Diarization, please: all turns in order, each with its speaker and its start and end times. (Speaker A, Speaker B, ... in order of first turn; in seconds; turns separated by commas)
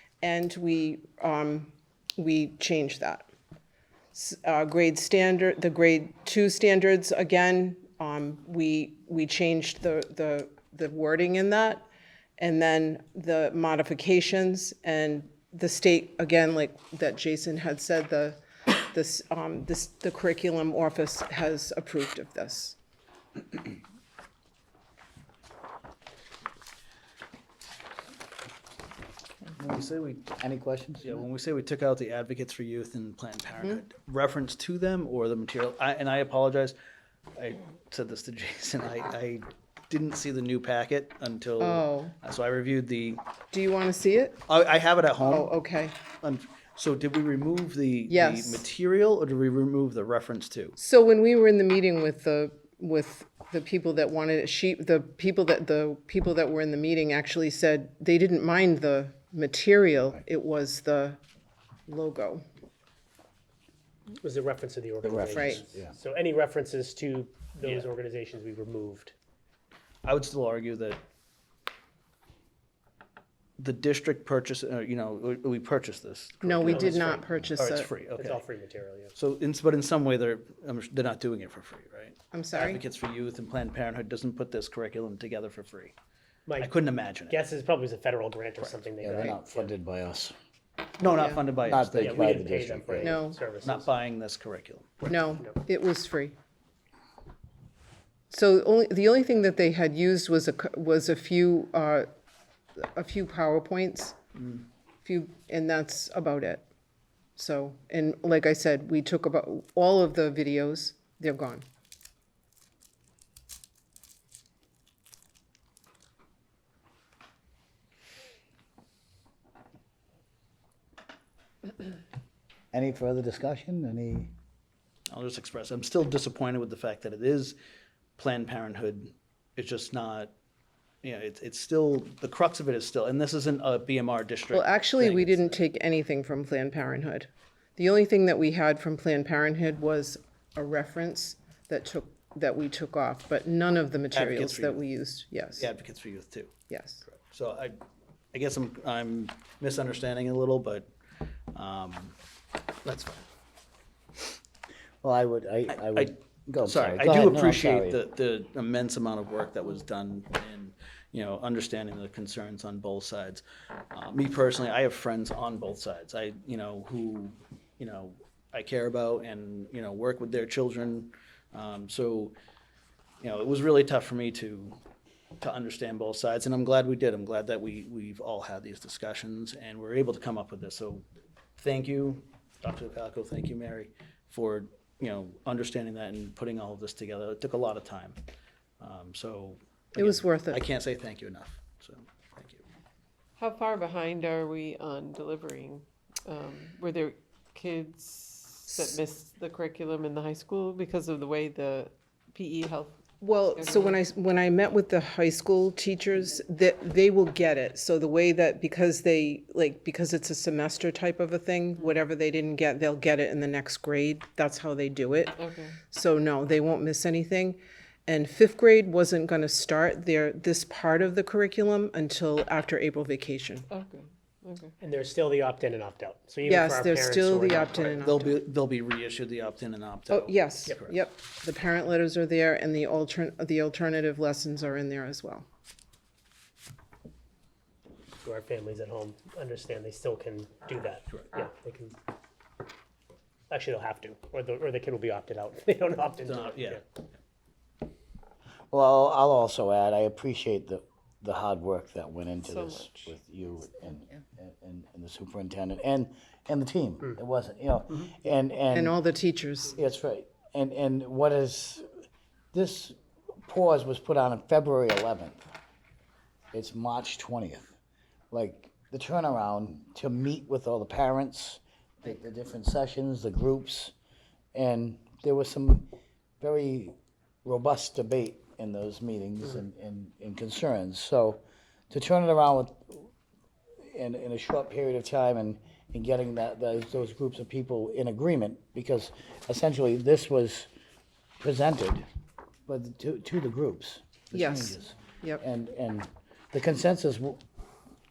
Speaker A: 0.2-3.3, Speaker A: 4.1-11.9, Speaker A: 12.4-22.8, Speaker B: 29.5-30.3, Speaker C: 30.3-31.2, Speaker B: 31.0-36.8, Speaker B: 37.4-43.2, Speaker A: 41.6-42.1, Speaker A: 43.5-44.4, Speaker B: 44.5-45.5, Speaker A: 45.2-46.0, Speaker B: 46.2-50.8, Speaker A: 48.1-48.6, Speaker A: 50.8-61.2, Speaker A: 61.9-62.4, Speaker D: 64.2-69.1, Speaker C: 65.0-65.9, Speaker A: 65.3-65.6, Speaker B: 67.6-67.9, Speaker B: 70.0-71.0, Speaker B: 73.6-78.4, Speaker A: 76.4-77.9, Speaker D: 76.6-77.1, Speaker D: 78.1-79.1, Speaker B: 79.2-85.9, Speaker A: 82.3-82.8, Speaker D: 86.5-86.7, Speaker B: 86.6-87.4, Speaker D: 87.3-89.7, Speaker C: 89.0-90.3, Speaker B: 91.0-92.4, Speaker A: 91.0-91.4, Speaker C: 91.6-93.2, Speaker D: 92.0-93.9, Speaker A: 93.0-93.4, Speaker B: 93.6-95.0, Speaker D: 95.0-95.5, Speaker A: 95.1-96.3, Speaker A: 98.3-102.1, Speaker A: 102.8-104.2, Speaker B: 104.4-104.6, Speaker A: 105.0-106.6, Speaker A: 107.3-111.6, Speaker C: 122.7-124.3, Speaker B: 125.1-127.5, Speaker B: 128.2-130.3, Speaker B: 131.0-135.6, Speaker A: 134.5-145.7, Speaker B: 144.1-144.8, Speaker B: 145.6-146.5, Speaker A: 146.7-147.0, Speaker B: 147.0-147.8, Speaker B: 148.3-150.9, Speaker B: 151.5-152.2, Speaker B: 152.8-153.2, Speaker C: 155.0-158.0, Speaker B: 155.7-172.3, Speaker B: 173.2-174.8, Speaker B: 175.4-181.1, Speaker B: 181.6-188.2, Speaker B: 188.8-192.6, Speaker A: 189.9-190.6, Speaker E: 193.4-204.0, Speaker A: 203.2-223.7, Speaker E: 215.4-215.8, Speaker E: 223.7-224.7, Speaker D: 224.8-228.0, Speaker A: 226.4-228.4, Speaker B: 227.9-230.9, Speaker A: 230.1-235.4, Speaker D: 238.2-241.9, Speaker D: 243.5-246.8, Speaker B: 246.2-246.8, Speaker C: 248.7-258.9, Speaker E: 252.4-253.1, Speaker A: 258.7-259.8, Speaker C: 259.7-261.8, Speaker C: 262.5-265.4, Speaker C: 266.5-267.7, Speaker C: 268.3-273.9, Speaker C: 274.5-283.1, Speaker C: 283.8-290.7, Speaker C: 291.4-292.1, Speaker C: 292.7-297.4, Speaker A: 294.3-295.4